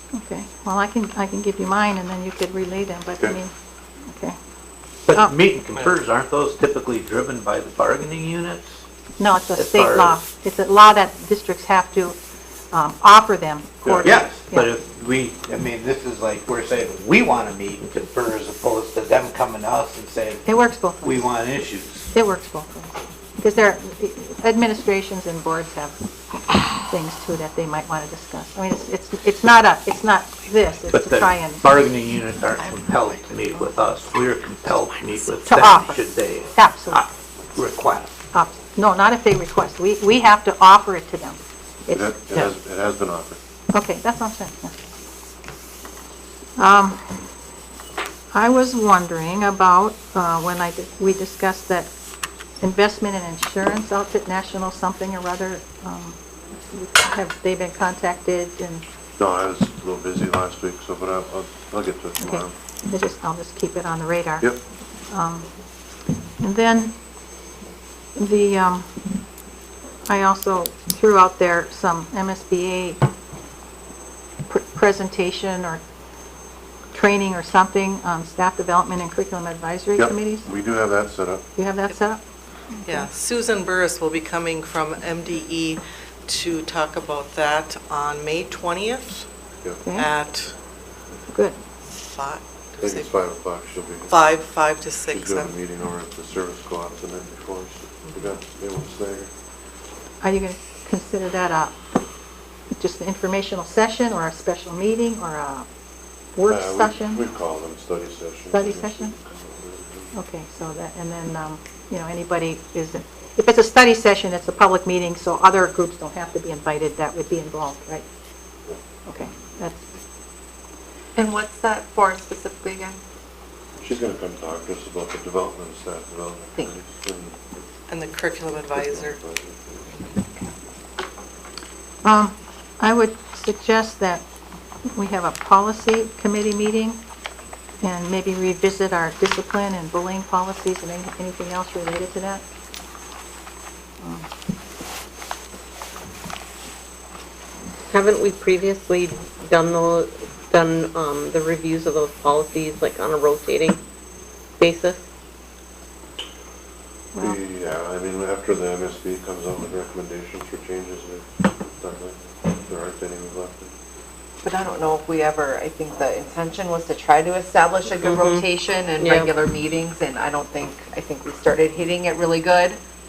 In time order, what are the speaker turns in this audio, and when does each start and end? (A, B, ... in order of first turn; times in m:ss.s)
0:00.1-0:03.5 A
0:05.1-0:08.8 B
0:09.2-0:12.2 A
0:09.5-0:10.2 B
0:12.7-0:14.7 A
0:13.8-0:14.1 C
0:14.0-0:22.1 B
0:20.4-0:21.2 A
0:22.1-0:31.6 A
0:30.9-0:38.1 B
0:35.5-0:36.0 A
0:36.5-0:37.0 A
0:38.3-0:42.0 A
0:41.9-0:43.4 C
0:43.7-0:44.7 A
0:46.6-0:47.0 A
0:48.3-0:51.9 A
0:52.6-0:56.1 A
0:56.7-0:58.8 A
0:59.2-1:02.5 C
1:02.2-1:04.5 A
1:05.1-1:05.4 A
1:06.4-1:06.9 A
1:08.2-1:08.8 A
1:10.1-1:13.0 A
1:14.5-1:15.8 A
1:16.9-1:20.5 A
1:20.0-1:21.5 C
1:21.6-1:22.2 A
1:22.8-1:29.3 D
1:29.9-1:30.5 D
1:31.3-1:31.6 A
1:32.0-1:33.1 D
1:32.8-1:34.1 C
1:34.1-1:35.5 D
1:35.1-1:39.3 C
1:40.2-1:41.8 A
1:42.8-1:45.6 A
1:46.4-1:47.2 A
1:46.4-1:50.1 C
1:48.5-1:49.1 A
1:50.2-1:58.0 A
1:59.1-1:59.8 A
2:01.2-2:03.0 E
2:03.8-2:07.5 C
2:07.9-2:09.2 D
2:08.7-2:10.0 C
2:12.0-2:14.2 A
2:14.9-2:17.0 A
2:17.8-2:22.4 A
2:27.9-2:33.8 F
2:34.6-2:35.0 F
2:37.2-2:43.7 C
2:44.4-2:52.8 E
2:48.0-2:48.4 F
2:49.0-2:49.3 F